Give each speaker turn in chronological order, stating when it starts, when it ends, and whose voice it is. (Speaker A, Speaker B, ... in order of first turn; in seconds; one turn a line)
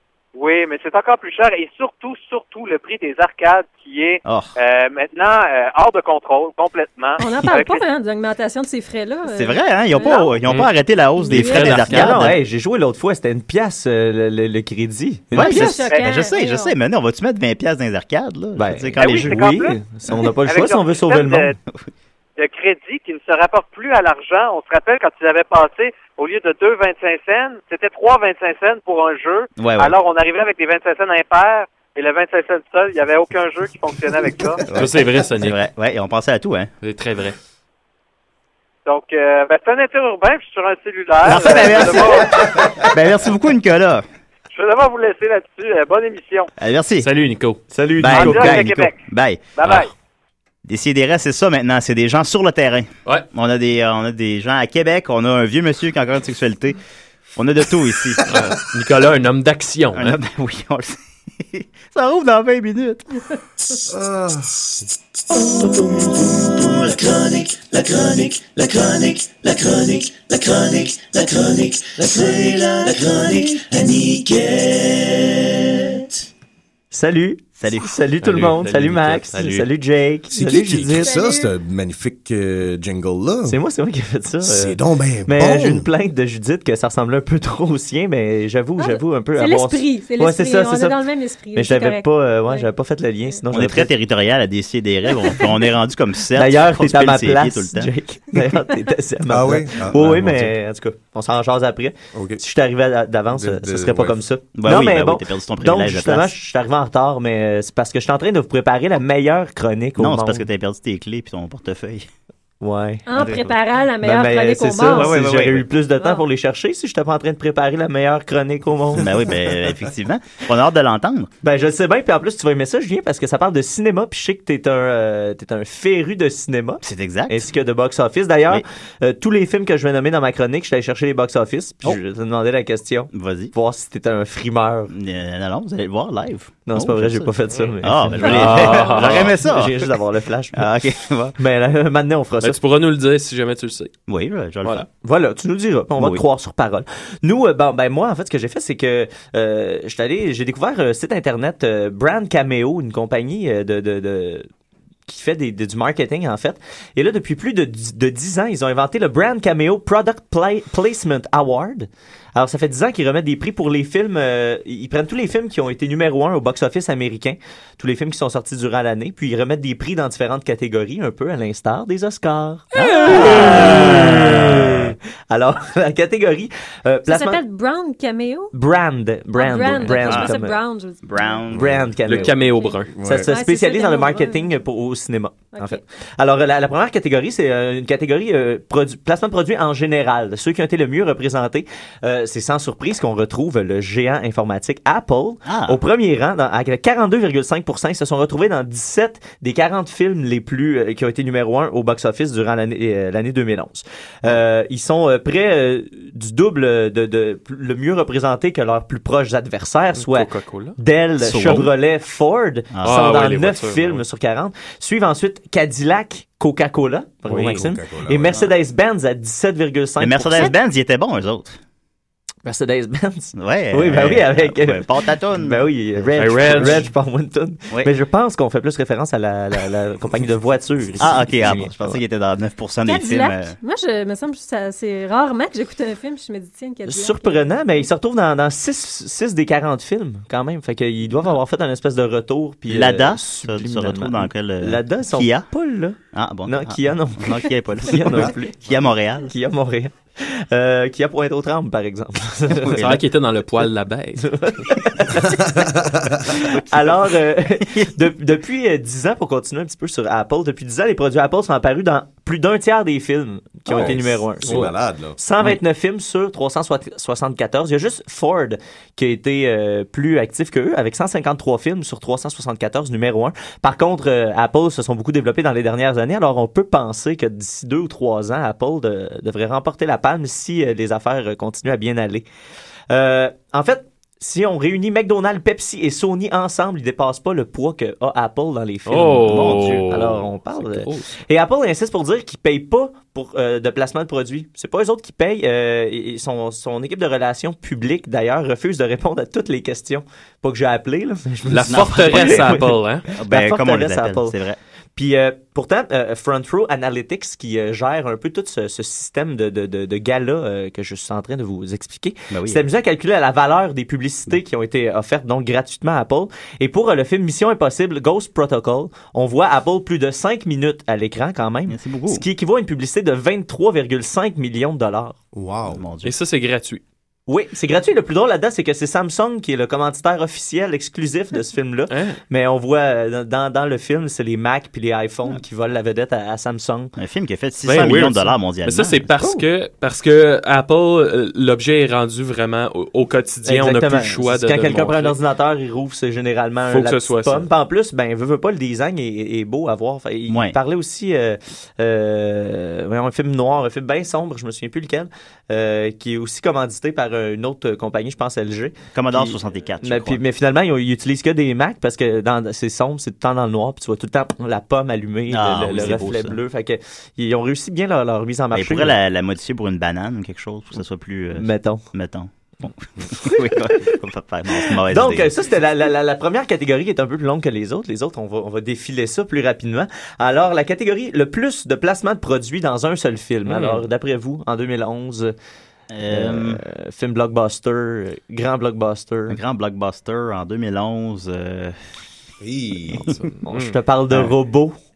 Speaker A: 0.3-7.8
Speaker B: 4.2-4.5
Speaker C: 7.2-10.4
Speaker B: 9.3-12.4
Speaker D: 10.4-10.7
Speaker C: 11.2-12.1
Speaker D: 11.3-12.3
Speaker E: 11.8-15.8
Speaker C: 15.3-16.8
Speaker B: 15.3-19.6
Speaker A: 15.9-16.2
Speaker E: 18.6-21.5
Speaker A: 19.0-19.8
Speaker A: 20.5-21.6
Speaker A: 22.4-34.7
Speaker B: 29.6-30.0
Speaker B: 34.7-36.7
Speaker D: 34.7-35.6
Speaker D: 36.8-37.4
Speaker A: 38.9-42.7
Speaker B: 41.2-44.0
Speaker A: 44.5-46.5
Speaker B: 46.6-47.1
Speaker D: 47.0-47.6
Speaker E: 47.7-48.7
Speaker B: 48.0-49.5
Speaker A: 48.1-49.9
Speaker D: 49.6-49.9
Speaker B: 50.7-56.8
Speaker B: 57.4-58.3
Speaker D: 58.3-60.2
Speaker B: 59.9-63.0
Speaker F: 63.9-64.7
Speaker G: 65.3-76.1
Speaker E: 76.9-81.1
Speaker B: 77.6-78.0
Speaker D: 78.2-79.7
Speaker F: 80.3-83.6
Speaker C: 80.9-81.5
Speaker E: 83.5-93.9
Speaker F: 84.4-85.9
Speaker C: 88.8-92.7
Speaker B: 93.5-97.9
Speaker E: 96.3-110.5
Speaker F: 99.3-100.6
Speaker F: 102.1-102.4
Speaker F: 103.3-104.2
Speaker B: 104.5-106.3
Speaker B: 110.0-112.1
Speaker E: 112.6-113.4
Speaker C: 113.1-115.2
Speaker B: 113.2-113.5
Speaker E: 114.0-119.1
Speaker B: 114.8-115.7
Speaker C: 116.0-116.2
Speaker B: 118.9-121.3
Speaker E: 121.4-134.9
Speaker B: 126.8-127.5
Speaker B: 133.1-133.5
Speaker B: 134.9-139.9
Speaker E: 136.7-140.7
Speaker D: 137.6-139.4
Speaker B: 140.6-141.4
Speaker E: 141.4-142.6
Speaker D: 142.4-143.9
Speaker B: 144.1-144.9
Speaker E: 145.0-154.5
Speaker B: 146.0-146.2
Speaker E: 155.1-177.4
Speaker B: 172.8-174.5
Speaker C: 172.8-173.3
Speaker D: 172.8-174.1
Speaker C: 177.1-178.5
Speaker E: 178.5-180.6
Speaker C: 179.3-181.5
Speaker B: 179.9-180.4
Speaker B: 181.0-181.9
Speaker E: 181.5-182.4
Speaker D: 182.1-182.9
Speaker C: 182.4-184.6
Speaker F: 182.9-183.3
Speaker E: 183.0-220.6
Speaker C: 185.5-185.8
Speaker B: 195.5-195.8
Speaker D: 209.9-210.8
Speaker B: 211.2-211.7
Speaker B: 212.7-213.0
Speaker D: 212.8-214.0
Speaker D: 217.3-217.6
Speaker F: 217.3-218.4
Speaker B: 220.0-221.6
Speaker E: 222.4-232.0
Speaker B: 223.4-226.8
Speaker D: 226.2-226.9
Speaker B: 231.0-233.6
Speaker C: 232.8-237.9
Speaker E: 236.8-248.7
Speaker B: 242.7-245.5
Speaker B: 246.1-249.3
Speaker E: 249.3-252.9
Speaker D: 252.8-254.3
Speaker E: 254.2-255.5
Speaker F: 255.4-256.2
Speaker E: 256.3-282.2
Speaker B: 256.5-257.9
Speaker F: 263.7-265.2
Speaker E: 282.9-302.7
Speaker D: 288.9-291.1
Speaker B: 289.2-289.9
Speaker D: 301.5-303.1
Speaker B: 301.7-304.6
Speaker E: 303.2-304.4
Speaker E: 305.0-325.2
Speaker B: 312.3-312.6
Speaker B: 321.7-322.2
Speaker F: 325.3-325.8
Speaker B: 325.7-326.1
Speaker D: 326.0-326.8
Speaker E: 327.3-336.9
Speaker D: 331.9-332.2
Speaker B: 337.0-339.1
Speaker D: 337.6-345.2
Speaker E: 339.2-339.5
Speaker E: 343.4-369.0
Speaker D: 346.7-347.5
Speaker B: 350.3-350.6
Speaker B: 358.9-360.2
Speaker B: 365.3-366.4
Speaker B: 368.5-375.4
Speaker E: 371.4-371.9
Speaker E: 374.6-385.4
Speaker D: 383.5-383.8
Speaker B: 385.9-386.6
Speaker E: 386.1-389.4
Speaker B: 389.3-391.8
Speaker F: 392.4-393.1
Speaker D: 393.2-393.8
Speaker E: 393.4-394.8